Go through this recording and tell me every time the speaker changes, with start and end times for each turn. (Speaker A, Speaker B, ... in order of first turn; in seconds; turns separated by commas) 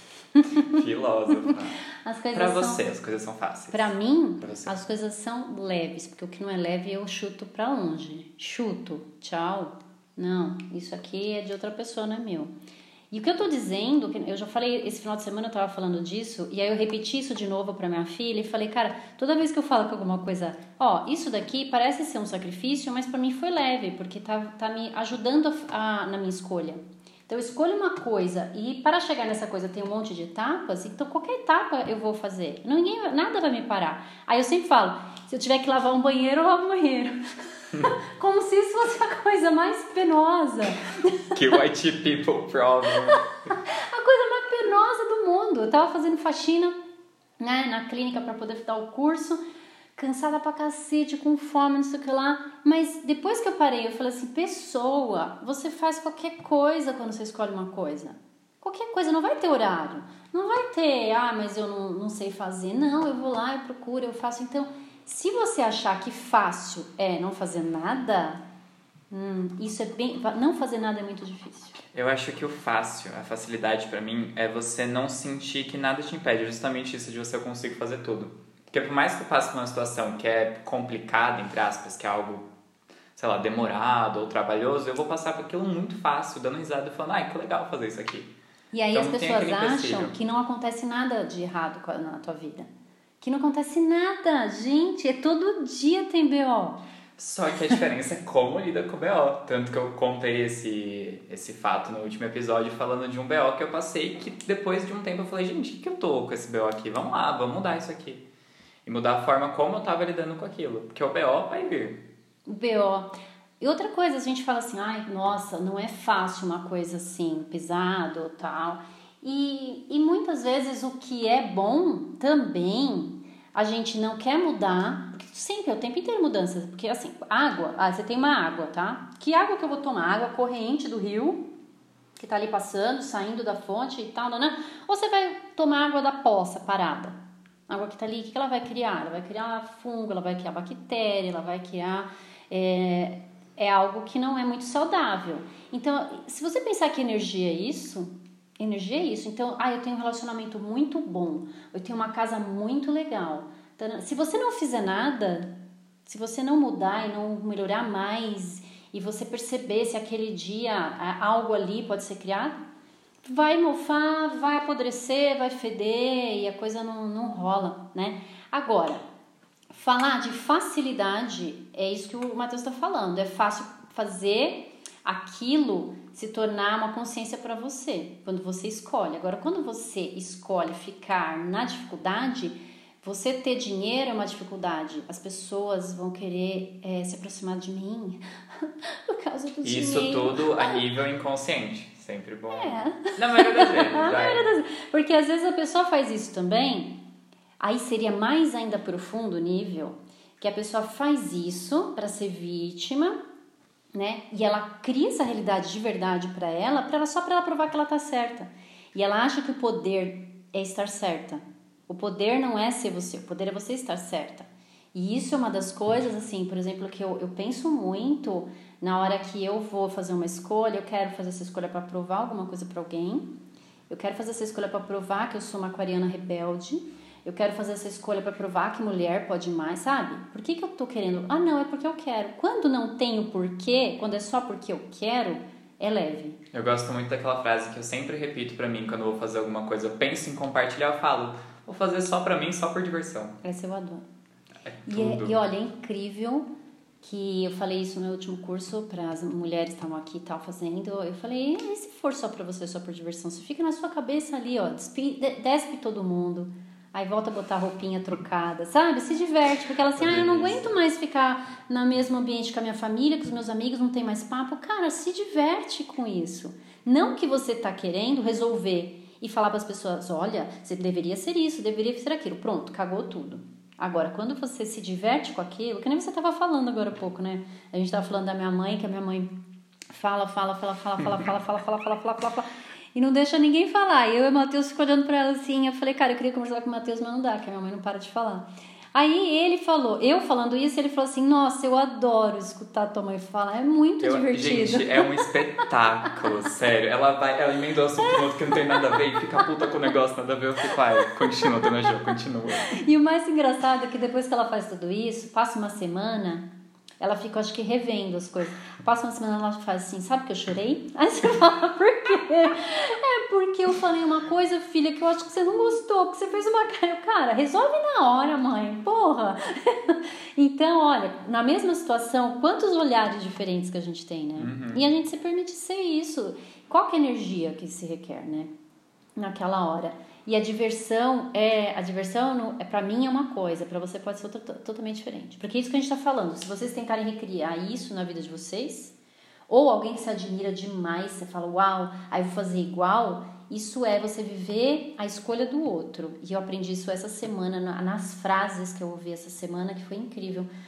Speaker A: 0.4-0.6, Speaker B: 0.7-1.8, Speaker A: 1.9-2.9, Speaker B: 2.3-4.7, Speaker A: 3.7-12.5, Speaker A: 13.1-41.3, Speaker B: 41.3-43.2, Speaker A: 43.5-46.8, Speaker A: 47.4-49.4, Speaker A: 50.0-68.4, Speaker A: 69.1-71.8, Speaker B: 71.9-82.5, Speaker B: 83.2-88.3, Speaker A: 88.7-92.7, Speaker B: 88.9-90.1, Speaker A: 93.2-96.8, Speaker B: 97.2-108.3, Speaker B: 108.8-112.0, Speaker A: 112.5-131.5, Speaker A: 132.2-137.2, Speaker A: 137.7-162.6, Speaker A: 163.2-169.0, Speaker A: 169.7-190.9, Speaker B: 189.6-194.5, Speaker A: 192.5-197.0, Speaker A: 197.6-203.2, Speaker A: 203.9-223.4, Speaker A: 223.9-236.4, Speaker B: 236.5-243.4, Speaker A: 243.4-244.1, Speaker B: 244.7-245.4, Speaker A: 244.9-246.5, Speaker A: 247.0-295.2, Speaker B: 259.9-260.8, Speaker B: 294.0-302.8, Speaker A: 298.7-298.9, Speaker A: 301.2-301.7, Speaker A: 302.6-306.5, Speaker A: 307.0-328.5, Speaker B: 324.4-324.9, Speaker A: 329.2-338.9, Speaker A: 339.5-350.5